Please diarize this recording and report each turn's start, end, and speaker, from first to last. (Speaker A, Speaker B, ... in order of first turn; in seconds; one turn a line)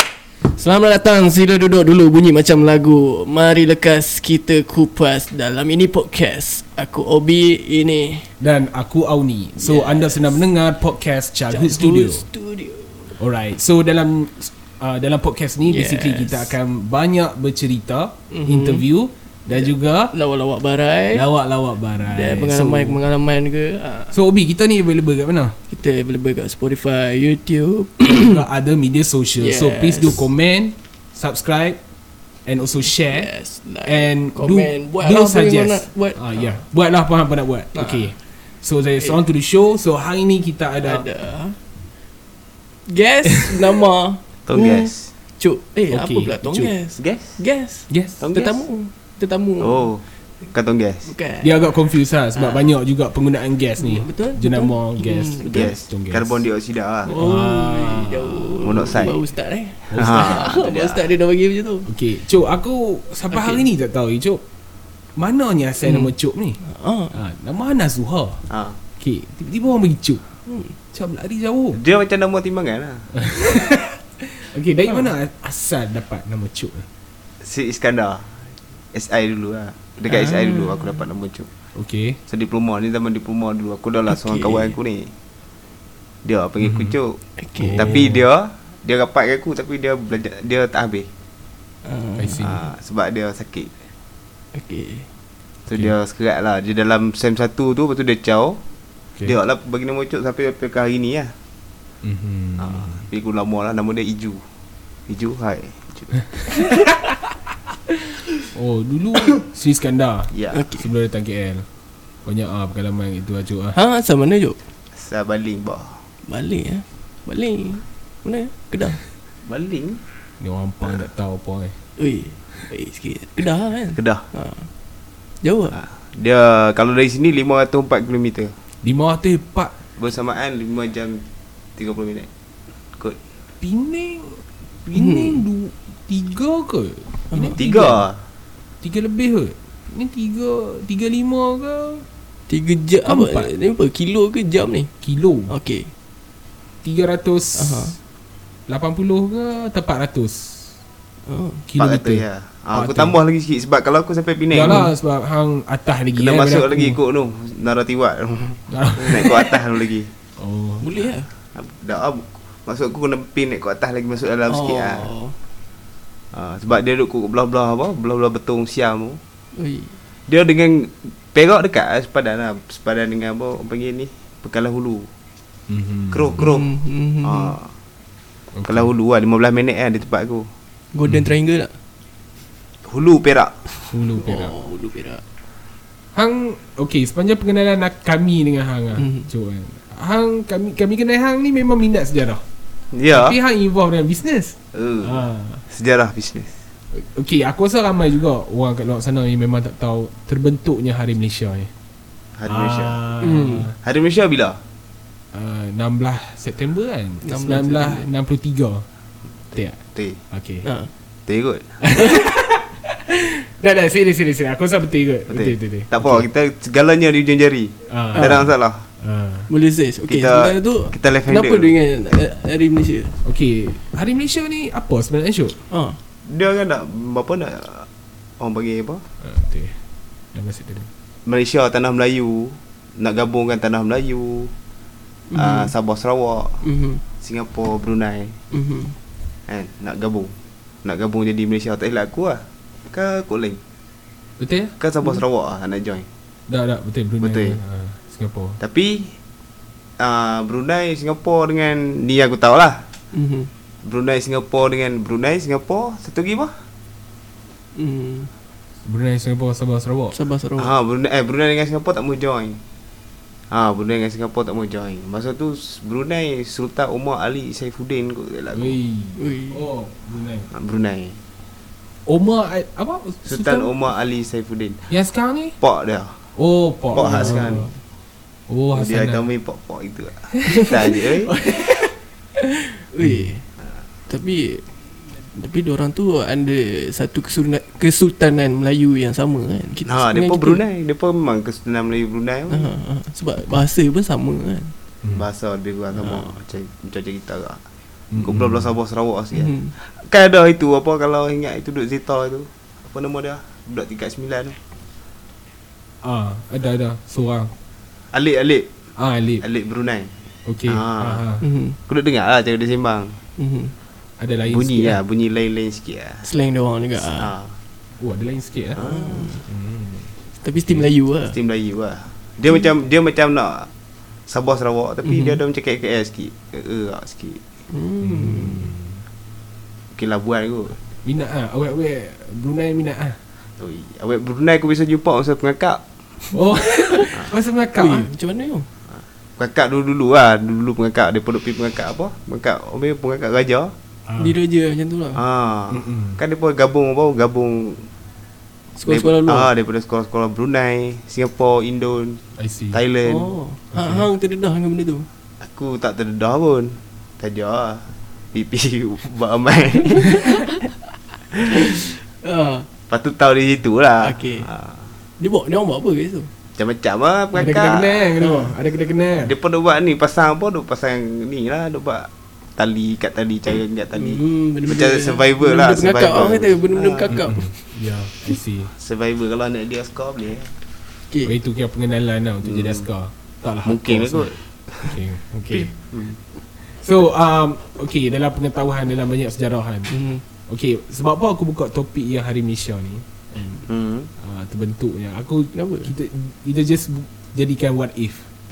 Speaker A: 0.4-8.3
Speaker B: 8.4-12.3
Speaker A: 9.6-10.4
Speaker A: 11.5-13.2
Speaker B: 13.2-20.1
Speaker A: 15.6-16.5
Speaker A: 18.3-18.8
Speaker A: 19.5-21.2
Speaker B: 21.1-23.0
Speaker A: 22.1-24.1
Speaker B: 24.1-25.6
Speaker A: 25.7-28.4
Speaker B: 28.1-31.8
Speaker A: 29.4-30.3
Speaker B: 32.5-33.3
Speaker A: 33.1-36.2
Speaker B: 33.8-41.0
Speaker A: 37.7-38.0
Speaker A: 40.8-41.6
Speaker A: 42.9-49.8
Speaker C: 44.5-45.1
Speaker B: 45.9-46.7
Speaker C: 47.0-47.4
Speaker B: 47.9-48.2
Speaker C: 48.2-48.5
Speaker C: 49.6-51.1
Speaker A: 51.1-51.7
Speaker B: 51.4-56.4
Speaker A: 52.4-52.7
Speaker A: 53.8-55.7
Speaker C: 55.5-57.1
Speaker A: 57.1-61.9
Speaker B: 57.1-58.8
Speaker C: 58.6-59.2
Speaker B: 59.9-60.4
Speaker C: 59.9-61.1
Speaker B: 61.9-64.4
Speaker A: 63.3-63.6
Speaker B: 65.2-66.6
Speaker A: 65.8-66.1
Speaker A: 66.6-67.1
Speaker B: 67.1-68.5
Speaker C: 68.5-68.8
Speaker B: 69.0-70.2
Speaker A: 70.5-70.7
Speaker B: 70.9-71.8
Speaker C: 71.7-73.1
Speaker B: 73.1-76.9
Speaker C: 77.4-78.3
Speaker C: 78.9-81.5
Speaker A: 80.1-81.0
Speaker B: 81.8-82.2
Speaker C: 82.3-85.1
Speaker A: 84.1-84.8
Speaker C: 86.2-87.2
Speaker B: 86.6-87.0
Speaker A: 87.4-88.0
Speaker B: 87.6-88.2
Speaker C: 87.8-91.1
Speaker A: 91.8-92.4
Speaker B: 92.2-92.6
Speaker C: 92.4-93.7
Speaker A: 94.5-95.1
Speaker C: 95.7-98.6
Speaker C: 99.2-101.3
Speaker B: 102.0-103.0
Speaker C: 102.6-104.4
Speaker C: 105.1-106.2
Speaker B: 108.5-111.7
Speaker C: 110.3-110.6
Speaker A: 110.5-110.8
Speaker B: 112.2-113.8
Speaker A: 113.7-114.6
Speaker C: 114.9-116.0
Speaker A: 116.3-119.0
Speaker C: 119.5-120.0
Speaker B: 120.4-121.8
Speaker A: 122.0-124.7
Speaker C: 124.0-124.2
Speaker A: 125.4-125.7
Speaker C: 125.7-128.5
Speaker B: 128.8-129.7
Speaker C: 130.0-131.2
Speaker C: 131.8-132.3
Speaker B: 133.6-138.0
Speaker A: 134.9-135.4
Speaker A: 137.3-137.9
Speaker C: 137.6-138.2
Speaker B: 138.8-142.1
Speaker A: 142.5-144.9
Speaker B: 143.1-143.5
Speaker B: 145.0-145.5
Speaker A: 145.5-145.9
Speaker B: 146.8-148.0
Speaker A: 147.6-147.9
Speaker B: 148.7-150.7
Speaker A: 151.3-151.6
Speaker B: 151.7-153.2
Speaker C: 151.8-154.8
Speaker B: 154.5-157.0
Speaker A: 154.6-154.9
Speaker C: 156.2-160.1
Speaker B: 158.7-159.5
Speaker B: 160.4-160.8
Speaker A: 160.8-161.3
Speaker C: 161.6-165.1
Speaker A: 164.5-165.3
Speaker C: 166.3-169.2
Speaker A: 169.6-170.0
Speaker C: 170.3-175.1
Speaker B: 175.7-176.4
Speaker C: 176.1-176.7
Speaker A: 176.4-177.6
Speaker C: 177.2-177.7
Speaker B: 178.6-178.9
Speaker C: 178.7-180.5
Speaker A: 180.9-181.8
Speaker C: 182.8-183.8
Speaker B: 183.9-184.6
Speaker A: 184.2-185.2
Speaker B: 186.1-192.4
Speaker A: 189.0-189.3
Speaker C: 192.9-193.4
Speaker B: 193.1-195.6
Speaker C: 194.7-196.6
Speaker B: 196.9-201.7
Speaker C: 202.4-203.0
Speaker B: 202.5-203.8
Speaker A: 203.2-203.7
Speaker C: 203.8-204.6
Speaker B: 205.3-208.8
Speaker A: 207.2-208.1
Speaker B: 209.5-210.7
Speaker A: 210.6-210.9
Speaker C: 211.3-211.7
Speaker B: 211.8-216.3
Speaker C: 215.3-218.8
Speaker B: 217.9-219.5
Speaker A: 219.5-223.2
Speaker C: 220.1-221.7
Speaker B: 223.2-225.6
Speaker A: 225.7-226.0
Speaker C: 226.3-227.9
Speaker C: 228.4-229.0
Speaker B: 229.2-229.8
Speaker B: 230.3-230.9
Speaker C: 231.3-234.5
Speaker A: 235.3-235.7
Speaker C: 235.3-236.6
Speaker A: 236.6-237.0
Speaker C: 237.2-238.4
Speaker A: 238.5-239.0
Speaker C: 239.5-240.3
Speaker C: 240.8-243.6
Speaker B: 244.4-244.7
Speaker C: 244.8-246.1
Speaker B: 246.5-248.6
Speaker C: 247.2-247.6
Speaker C: 248.6-249.1
Speaker C: 250.0-252.8
Speaker A: 253.1-253.5
Speaker C: 253.8-256.5
Speaker A: 257.8-258.3
Speaker B: 258.8-260.2
Speaker A: 260.1-260.7
Speaker C: 260.6-262.6
Speaker C: 263.5-268.8
Speaker B: 268.5-270.5
Speaker A: 269.2-269.6
Speaker C: 270.5-271.2
Speaker B: 272.1-273.7
Speaker C: 273.2-274.8
Speaker B: 274.9-275.6
Speaker C: 275.6-276.2
Speaker B: 276.4-277.7
Speaker C: 276.9-277.7
Speaker A: 277.1-277.7
Speaker B: 278.5-279.2
Speaker C: 278.7-281.3
Speaker A: 280.6-283.4
Speaker B: 283.0-283.3
Speaker A: 284.1-290.6
Speaker C: 289.9-292.7
Speaker A: 292.5-294.7
Speaker C: 295.1-297.6
Speaker A: 296.0-296.3
Speaker B: 298.1-298.7
Speaker C: 298.2-304.6
Speaker A: 299.4-299.7
Speaker B: 306.0-307.5
Speaker C: 308.1-308.7
Speaker B: 309.0-309.4
Speaker C: 309.4-310.1
Speaker B: 310.5-311.4
Speaker C: 310.7-311.2
Speaker A: 311.4-311.8
Speaker C: 311.9-313.2
Speaker A: 313.4-313.7
Speaker B: 314.2-315.0
Speaker C: 314.5-316.3
Speaker A: 316.2-317.3
Speaker C: 317.1-317.6
Speaker B: 318.0-318.9
Speaker C: 318.8-319.2
Speaker A: 318.8-319.4
Speaker B: 319.4-320.1
Speaker A: 320.4-321.4
Speaker C: 321.3-323.7
Speaker C: 324.3-327.4
Speaker A: 325.0-325.4
Speaker A: 327.7-328.7
Speaker B: 328.0-329.0
Speaker C: 329.9-330.8
Speaker B: 331.0-333.2
Speaker C: 333.6-335.8
Speaker B: 336.3-338.1
Speaker A: 337.8-338.7
Speaker C: 339.4-343.7
Speaker B: 344.1-344.4
Speaker A: 344.2-345.2
Speaker C: 345.1-347.9
Speaker B: 345.7-346.2
Speaker A: 348.8-349.5
Speaker C: 348.9-352.2
Speaker B: 352.4-352.8
Speaker C: 352.7-353.3
Speaker A: 353.1-355.1
Speaker B: 353.7-354.1
Speaker C: 355.4-360.5
Speaker A: 360.0-360.5
Speaker A: 361.5-362.7
Speaker C: 362.9-364.8
Speaker A: 364.0-364.5
Speaker A: 365.2-366.3
Speaker C: 366.6-368.1
Speaker B: 367.3-369.3
Speaker A: 368.2-368.5
Speaker C: 369.2-377.3
Speaker A: 374.0-377.5
Speaker B: 377.1-378.7
Speaker C: 378.8-380.5
Speaker B: 381.2-385.7
Speaker C: 382.4-382.9
Speaker C: 383.6-384.9
Speaker C: 385.5-386.2
Speaker B: 386.7-389.9
Speaker A: 389.9-390.2
Speaker B: 390.5-393.7
Speaker C: 393.7-394.1
Speaker B: 394.2-398.3
Speaker A: 395.5-395.9